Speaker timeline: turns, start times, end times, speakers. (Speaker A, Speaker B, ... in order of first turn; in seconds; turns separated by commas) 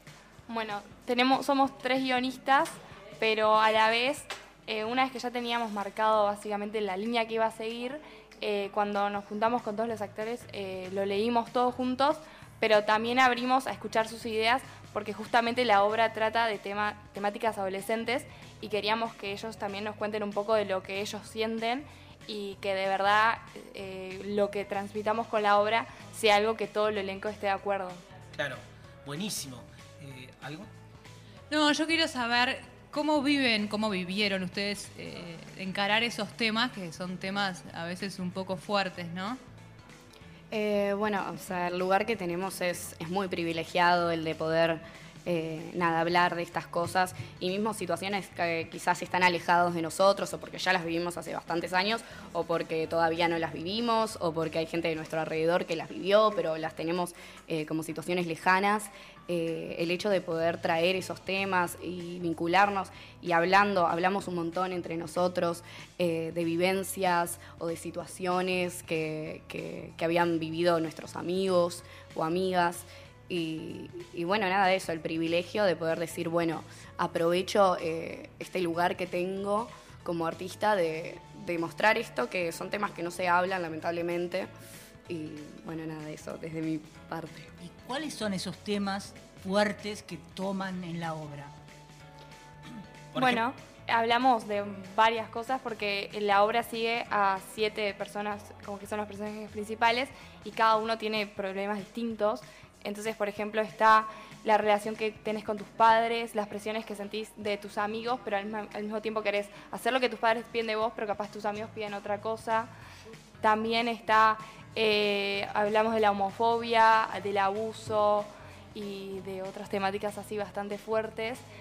Speaker A: 0.5-28.0, Speaker B: 28.3-30.7, Speaker C: 31.5-39.4, Speaker D: 40.5-84.5, Speaker D: 85.1-87.5, Speaker E: 87.6-91.5, Speaker B: 93.1-93.4, Speaker A: 93.1-112.7, Speaker A: 113.4-121.4